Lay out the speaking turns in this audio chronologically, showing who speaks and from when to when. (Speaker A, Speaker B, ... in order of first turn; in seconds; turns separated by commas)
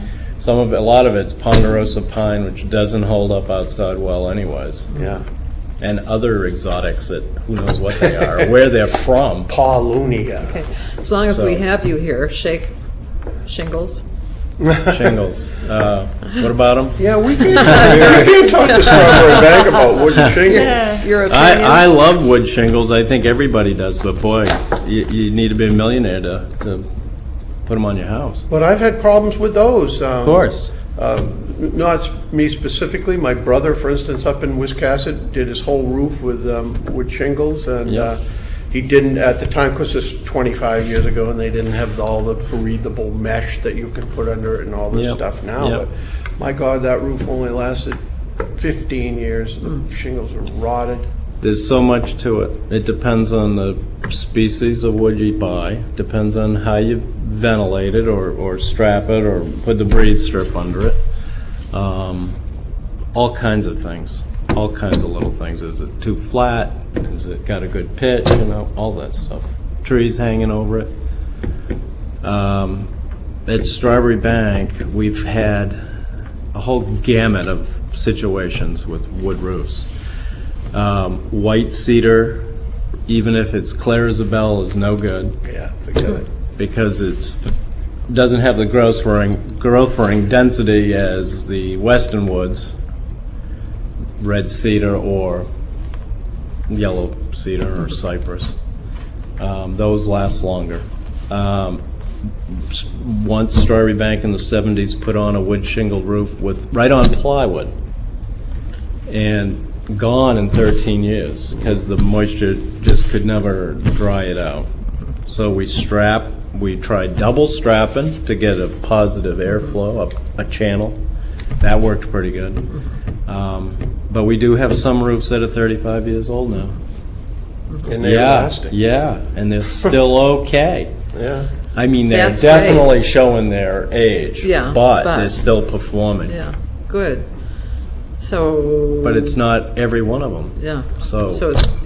Speaker A: 0.4-4.9, Speaker B: 4.9-5.2, Speaker A: 5.8-9.5, Speaker B: 9.5-10.6, Speaker C: 10.4-12.7, Speaker A: 11.2-11.6, Speaker C: 13.4-14.0, Speaker B: 14.6-15.2, Speaker A: 14.9-18.2, Speaker B: 17.0-21.0, Speaker C: 17.7-18.2, Speaker C: 20.3-21.9, Speaker A: 21.2-26.9, Speaker A: 27.7-28.4, Speaker B: 28.5-51.0, Speaker A: 30.2-30.7, Speaker A: 44.9-45.8, Speaker A: 51.4-61.0, Speaker A: 61.7-62.4, Speaker A: 63.1-70.9, Speaker A: 72.2-72.9, Speaker A: 73.5-75.8, Speaker A: 76.5-79.9, Speaker A: 80.7-82.5, Speaker A: 83.1-85.4, Speaker B: 85.4-86.3, Speaker A: 86.6-87.5, Speaker A: 88.1-92.7, Speaker A: 94.2-95.5, Speaker A: 96.7-98.6, Speaker A: 99.4-101.8, Speaker A: 102.5-107.7, Speaker A: 109.1-114.7, Speaker A: 115.3-121.0, Speaker A: 121.6-122.7, Speaker A: 123.3-126.8, Speaker B: 127.8-128.8, Speaker A: 128.0-130.9, Speaker B: 131.1-131.5, Speaker A: 131.7-136.4, Speaker C: 132.1-132.9, Speaker C: 134.4-135.4, Speaker C: 136.3-137.3, Speaker C: 138.2-139.3, Speaker A: 139.0-141.6, Speaker C: 140.6-141.8